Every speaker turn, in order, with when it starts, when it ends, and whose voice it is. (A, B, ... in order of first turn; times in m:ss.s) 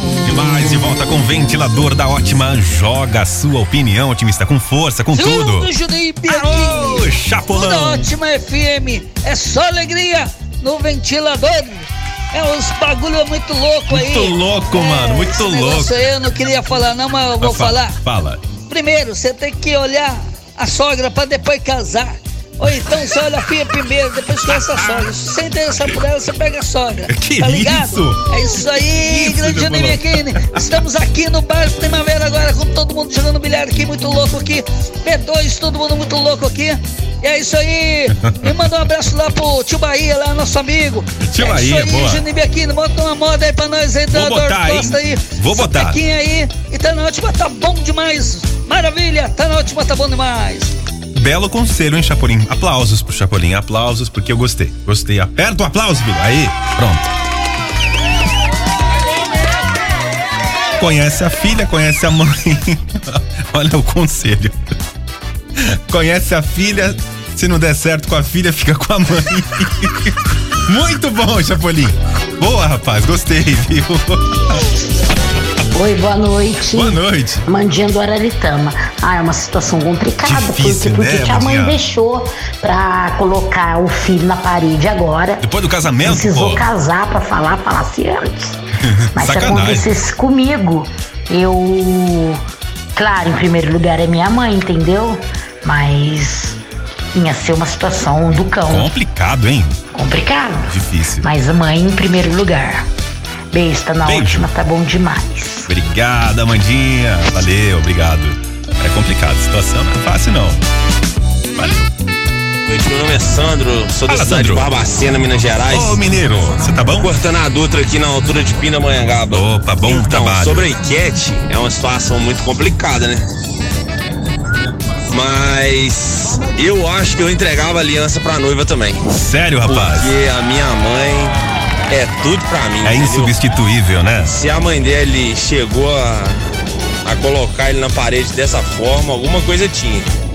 0:00.2-0:05.7 A
0:05.1-0:18.0 B
0:06.2-0:08.1 A
0:13.9-0:16.1 A
0:17.4-0:18.4 A
0:18.7-0:50.7 B
0:24.5-0:25.1 A
0:27.1-0:30.8 A
0:38.2-0:38.5 A
0:41.2-0:42.2 A
0:44.1-0:46.0 A
0:51.1-0:57.1 A
1:00.8-1:04.6 A
1:05.9-1:10.1 A
1:10.7-1:14.7 A
1:15.7-1:25.5 C
1:16.7-1:17.4 A
1:20.2-1:21.8 A
1:25.4-1:26.7 A
1:26.0-1:28.6 C
1:29.0-1:29.9 A
1:29.2-1:32.4 C
1:33.0-1:36.6 C
1:37.2-1:38.9 C
1:38.7-1:39.8 A
1:39.9-1:42.8 C
1:40.7-1:41.3 A
1:43.5-1:45.7 C
1:44.0-1:44.5 A
1:45.7-1:50.6 A
1:51.6-1:51.9 A
1:52.6-1:56.0 D
1:54.1-1:54.7 A
1:55.6-1:57.1 A
1:57.0-2:03.2 D
1:59.3-2:00.7 A
2:05.1-2:09.0 D
2:09.1-2:10.1 A
2:09.6-2:11.4 D
2:11.9-2:13.4 D
2:12.8-2:14.4 A
2:14.2-2:16.4 D
2:17.0-2:20.1 D